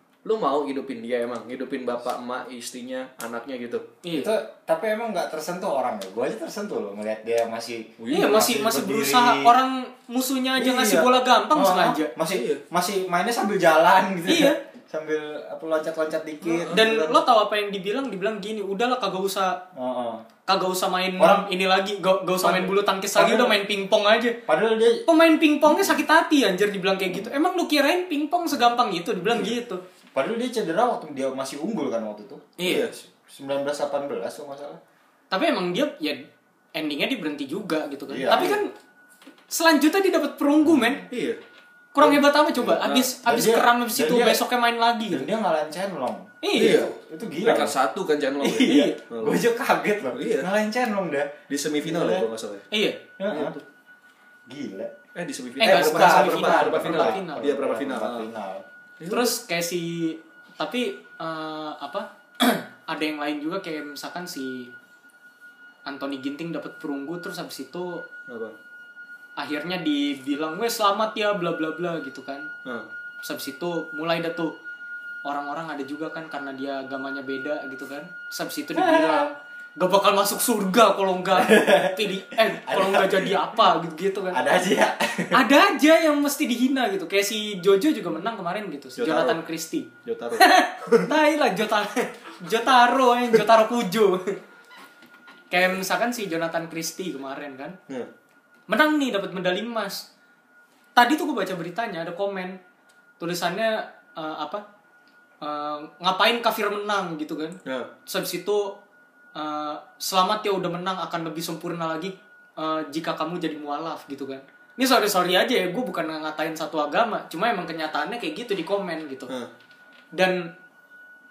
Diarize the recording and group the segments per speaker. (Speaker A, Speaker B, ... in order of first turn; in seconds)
Speaker A: 0.2-3.9, 8.0-8.5, 12.3-12.6, 16.4-17.1, 32.6-32.9, 41.1-41.4, 42.8-43.1, 46.5-49.4, 50.1-50.5, 51.5-52.7, 53.3-53.6, 55.1-58.3, 59.0-59.3, 68.3-68.5, 89.0-89.4, 90.0-91.1, 107.6-107.9
Speaker B: 4.0-4.3, 8.1-12.1, 14.2-14.6, 16.7-19.6, 20.5-24.4, 25.1-29.8, 32.6-32.9, 35.3-36.2, 36.7-38.7, 39.5-41.0, 41.9-45.3, 46.4-46.9, 48.5-49.0, 52.7-53.0, 55.6-57.4, 59.1-64.7, 65.8-68.0, 69.4-72.5, 73.2-74.5, 75.2-84.4, 85.3-94.4, 95.5-97.8, 98.7-100.1, 101.0-102.6, 103.2-104.6, 105.4-108.8, 109.3-119.3, 120.1-120.5
Speaker C: 4.1-9.5, 10.6-17.1, 19.7-20.2, 21.2-21.5, 22.4-23.6, 24.5-25.1, 25.6-26.0, 30.1-34.8, 38.1-38.6, 40.6-41.1, 42.5-44.4, 45.1-47.7, 48.4-52.3, 53.2-53.5, 54.5-54.9, 55.6-58.6, 78.7-79.3, 81.3-83.5, 84.3-85.4